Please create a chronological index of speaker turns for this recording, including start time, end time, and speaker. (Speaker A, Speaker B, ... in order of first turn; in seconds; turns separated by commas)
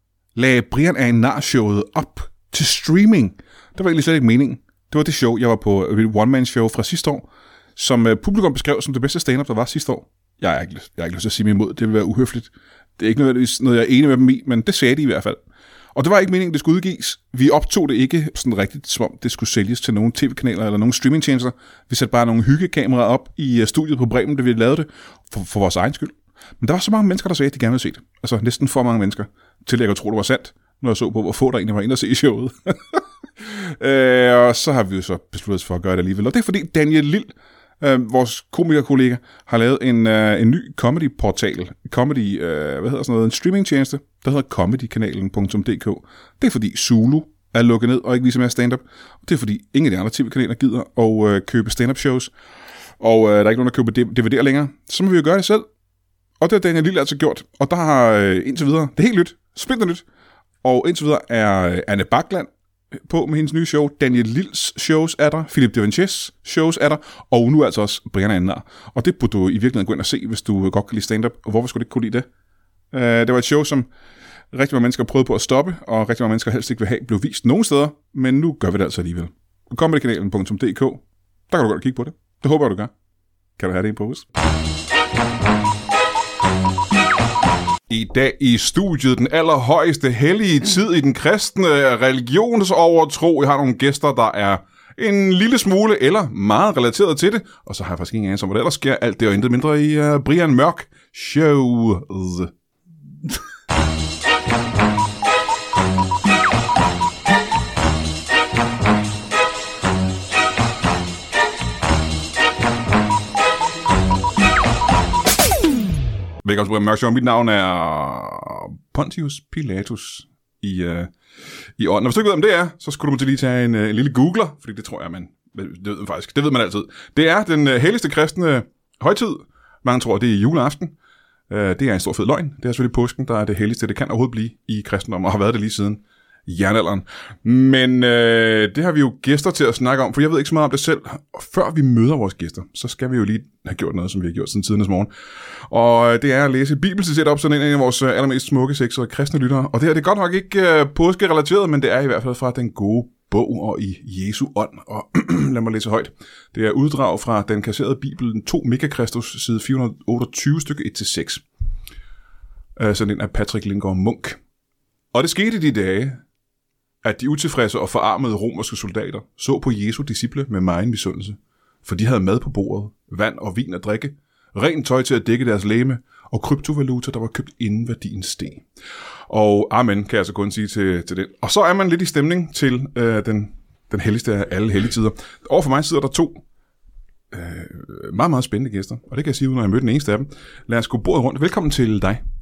Speaker A: 0.3-7.2, Speaker A: 7.8-15.4, Speaker A: 15.9-52.3, Speaker A: 53.0-55.7, Speaker A: 56.4-60.0, Speaker A: 60.6-72.3, Speaker A: 72.9-73.9, Speaker A: 74.5-82.9, Speaker A: 83.6-84.2, Speaker A: 87.9-102.5, Speaker A: 116.4-121.1, Speaker A: 121.8-130.9, Speaker A: 131.5-161.4, Speaker A: 162.8-164.4, Speaker A: 165.1-166.2, Speaker A: 167.0-178.7, Speaker A: 179.3-186.4, Speaker A: 187.3-192.2